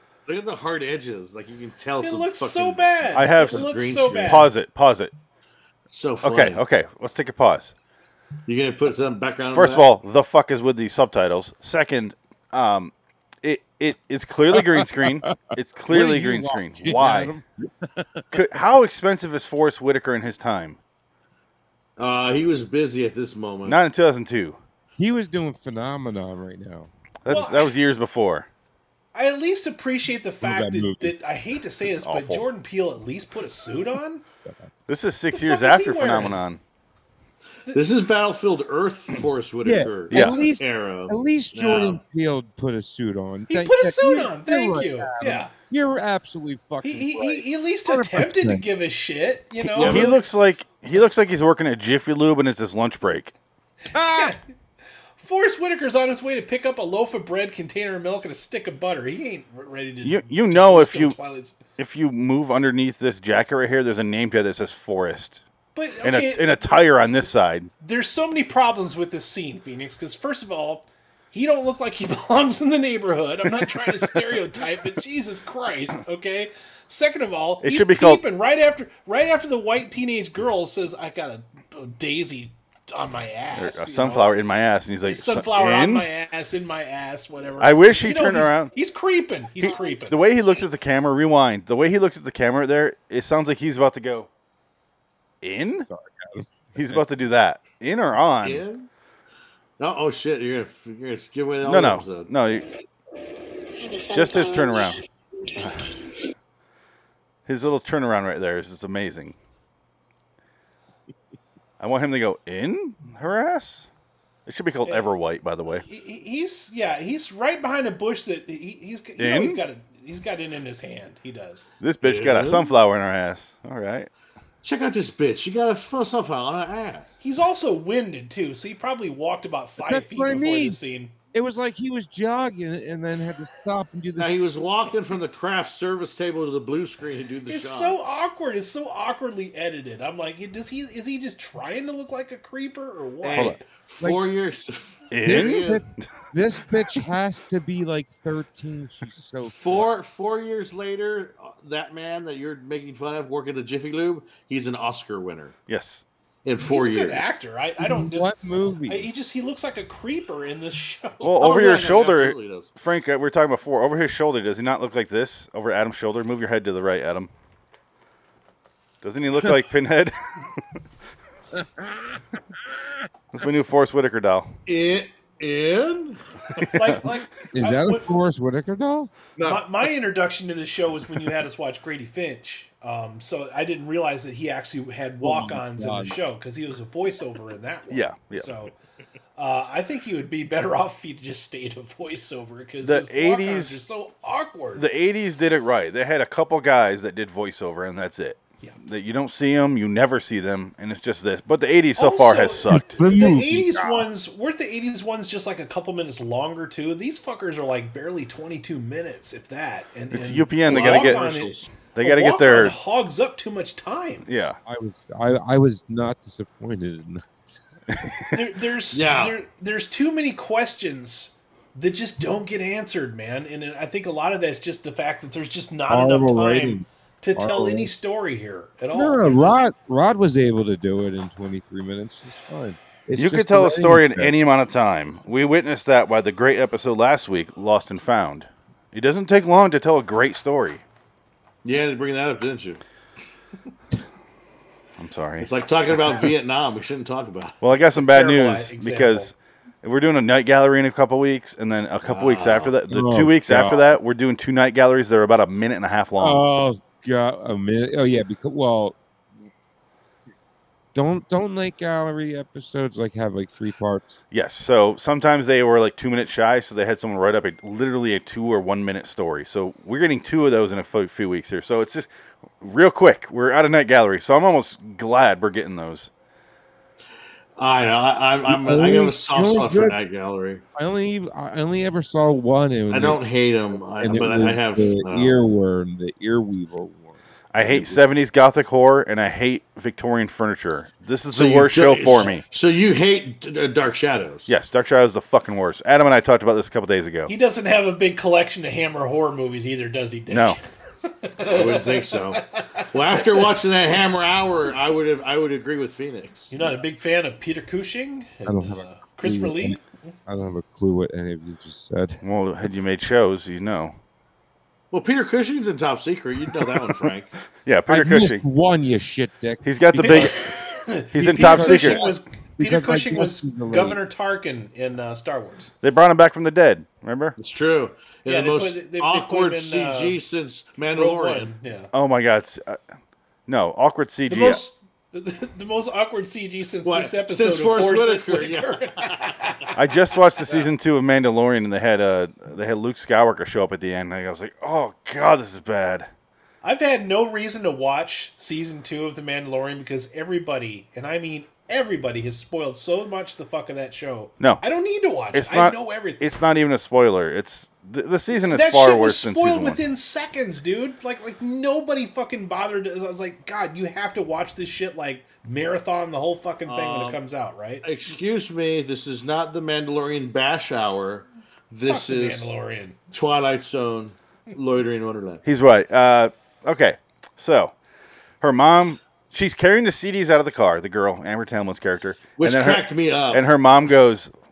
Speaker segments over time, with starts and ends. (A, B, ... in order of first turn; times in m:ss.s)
0:00.2-0:04.5 A
0:02.0-0:04.5 B
0:03.1-0:03.7 C
0:04.2-0:05.1 C
0:05.9-0:06.6 A
0:06.2-0:07.7 C
0:08.5-0:09.9 A
0:09.5-0:17.3 C
0:14.5-0:15.4 D
0:15.9-0:18.4 D
0:18.3-0:20.8 C
0:22.0-0:23.8 A
0:23.6-0:24.6 C
0:25.0-0:26.9 D
0:27.2-0:28.5 C
0:27.3-0:27.7 B
0:29.1-0:34.2 B
0:30.4-0:31.1 D
0:32.0-0:32.4 C
0:34.4-0:34.7 D
0:34.9-0:36.6 C
0:35.3-0:36.4 B
0:37.7-0:42.0 A
0:39.6-0:48.7 D
0:40.1-0:40.4 C
0:43.5-0:45.5 B
0:46.8-0:50.2 B
0:49.8-0:50.1 A
0:49.8-0:53.3 C
0:53.9-0:54.4 D
0:54.0-0:54.4 B
0:55.2-1:01.6 B
1:00.0-1:01.2 C
1:01.8-1:05.4 C
1:05.8-1:06.6 B
1:06.0-1:07.7 C
1:07.8-1:24.3 B
1:17.6-1:18.2 C
1:23.5-1:26.1 C
1:25.1-1:30.2 B
1:27.6-1:28.7 C
1:29.6-1:34.3 C
1:35.4-1:35.9 C
1:35.8-1:37.0 D
1:36.8-1:38.6 C
1:38.4-1:38.9 A
1:39.8-1:42.3 A
1:41.6-1:42.6 C
1:43.8-1:46.1 E
1:44.1-1:45.0 C
1:45.6-1:45.8 C
1:47.5-1:49.4 C
1:51.8-1:53.9 C
1:54.5-1:55.8 C
1:54.8-1:55.1 B
1:55.8-2:01.7 B
1:59.2-1:59.6 C
2:01.8-2:04.1 C
2:02.0-2:02.8 A
2:04.6-2:07.2 A
2:07.2-2:11.1 B
2:09.8-2:10.8 D
2:11.3-2:14.4 D
2:14.2-2:18.0 A
2:17.5-2:23.6 B
2:23.2-2:25.8 A
2:25.1-2:26.1 C
2:25.2-2:29.9 D
2:29.4-2:35.6 A
2:35.7-2:36.0 C
2:36.4-2:37.3 A
2:36.6-2:38.3 B
2:37.8-2:39.1 D
2:38.9-2:41.4 B
2:41.2-2:47.3 C
2:41.4-2:42.7 A
2:49.0-2:50.2 C
2:51.6-2:52.2 D
2:53.3-2:54.5 C
2:54.7-2:56.9 A
2:56.7-2:58.1 B
2:57.5-2:59.1 D
2:59.4-2:59.6 A
2:59.4-3:08.7 B
3:05.2-3:06.2 D
3:07.9-3:08.5 C
3:09.4-3:14.8 B
3:12.8-3:13.8 C
3:14.8-3:23.0 C
3:22.0-3:34.3 B
3:22.7-3:24.1 D
3:30.1-3:31.2 C
3:30.7-3:31.7 A
3:32.0-3:32.8 C
3:34.3-3:34.6 C
3:34.7-3:38.2 D
3:37.9-3:38.4 C
3:38.3-3:49.6 B
3:38.9-3:39.4 A
3:45.9-3:47.9 D
3:48.9-3:54.4 D
3:53.2-4:00.8 C
4:01.6-4:02.8 A
4:05.0-4:05.5 C
4:05.4-4:07.6 A
4:07.6-4:16.4 C
4:08.0-4:09.3 B
4:12.0-4:12.7 A
4:12.9-4:13.8 D
4:16.2-4:19.0 D
4:20.9-4:24.2 D
4:24.3-4:32.1 C
4:32.6-4:36.1 C
4:37.6-4:40.6 A
4:38.5-4:40.0 D
4:40.8-4:43.2 D
4:42.9-4:45.4 A
4:44.0-4:48.0 D
4:47.5-4:52.4 C
4:51.3-4:54.5 A
4:54.5-4:57.3 C
4:57.3-5:03.4 B
5:00.3-5:00.6 C
5:01.5-5:06.8 A
5:06.5-5:10.1 B
5:08.4-5:12.2 D
5:12.2-5:14.0 C
5:14.9-5:17.3 A
5:17.6-5:18.4 C
5:17.9-5:20.4 D
5:19.6-5:20.4 C
5:20.0-5:25.7 B
5:21.1-5:22.0 C
5:21.2-5:24.0 D
5:25.8-5:27.4 C
5:27.4-5:31.5 A
5:28.3-5:30.2 B
5:31.0-5:31.9 B
5:31.9-5:32.8 C
5:33.5-5:34.6 C
5:34.3-5:39.7 B
5:36.8-5:39.4 A
5:39.8-5:46.1 C
5:46.6-5:56.4 B
5:55.3-5:59.8 C
5:58.4-6:07.8 B
6:06.6-6:07.2 A
6:07.8-6:12.5 A
6:11.9-6:13.0 B
6:13.1-6:15.4 A
6:15.4-6:17.7 C
6:18.4-6:24.3 C
6:22.4-6:23.4 A